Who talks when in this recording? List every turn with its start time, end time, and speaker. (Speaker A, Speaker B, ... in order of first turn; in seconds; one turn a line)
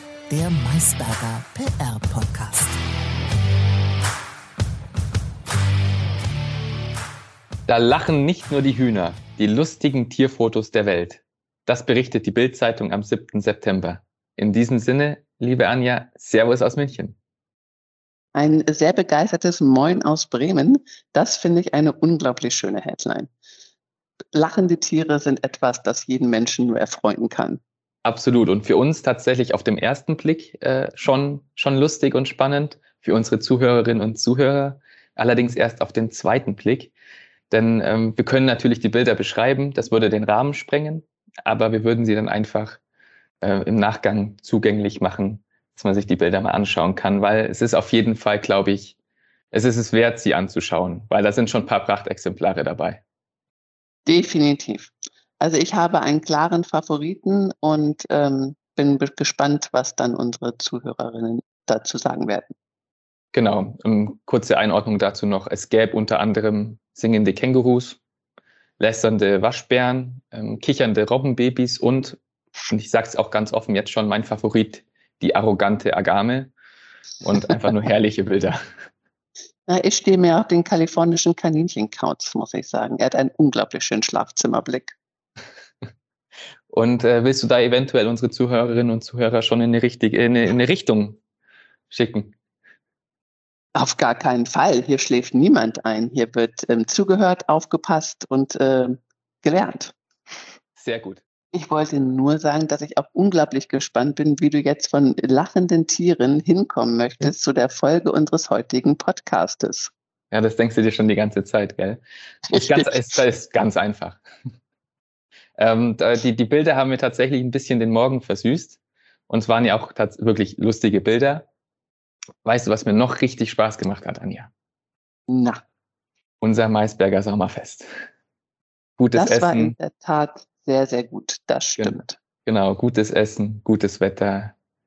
Speaker A: 0.3-2.8
Speaker B: 7.7-17.2
Speaker C: 18.4-23.3
Speaker C: 24.3-27.6
Speaker B: 28.0-36.9
Speaker B: 37.5-42.8
Speaker B: 43.4-49.0
Speaker B: 49.5-53.0
Speaker C: 54.1-62.5
Speaker B: 63.3-68.0
Speaker B: 68.8-76.5
Speaker B: 77.2-78.6
Speaker C: 79.7-85.0
Speaker B: 86.7-91.2
Speaker B: 91.9-92.3
Speaker C: 93.8-99.9
Speaker B: 100.8-101.2
Speaker C: 101.5-109.9
Speaker B: 110.3-114.2
Speaker B: 115.6-121.5
Speaker B: 122.4-124.5
Speaker C: 125.3-125.6
Speaker B: 126.4-127.9
Speaker B: 129.0-129.8
Speaker C: 129.1-132.2
Speaker B: 131.8-134.6